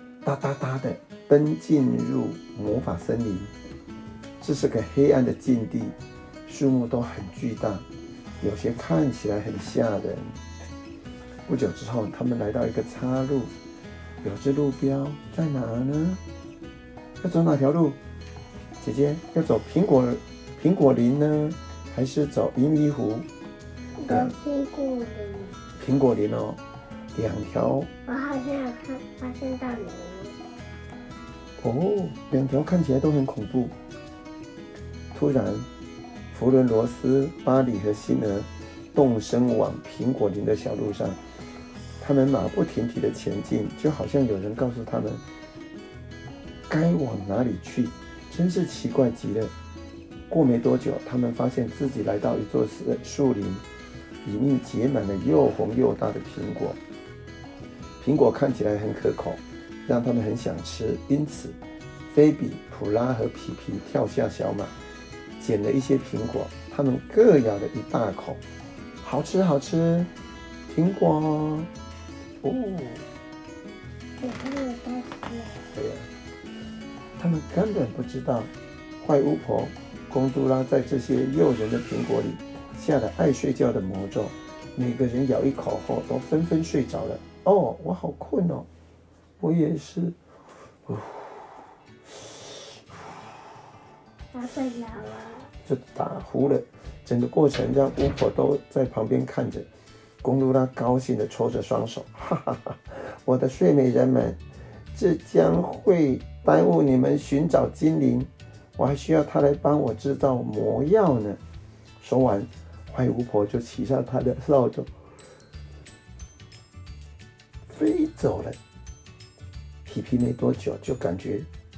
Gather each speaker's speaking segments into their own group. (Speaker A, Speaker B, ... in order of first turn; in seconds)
Speaker A: 0.2-3.5, 4.4-7.9, 8.4-10.4, 11.5-13.5, 14.2-16.2, 17.2-18.0, 18.8-23.3, 24.1-24.3, 25.8-26.6, 27.1-27.9, 31.6-33.7, 35.1-35.7, 36.3-41.2, 42.0-45.2, 46.7-49.5, 50.3-53.6, 54.2-56.8, 58.0-61.6, 62.1-64.8, 65.4-68.4, 69.0-70.1, 70.7-71.7, 72.4-73.1, 75.7-76.1, 77.2-88.7, 89.4-90.2, 90.9-91.5, 92.1-92.8, 95.7-99.7, 100.2-104.4, 104.9-111.4, 112.0-114.9, 117.7-118.6, 119.9-121.5
Speaker B: 24.0-25.6, 28.1-30.4, 74.2-75.6, 94.3-95.5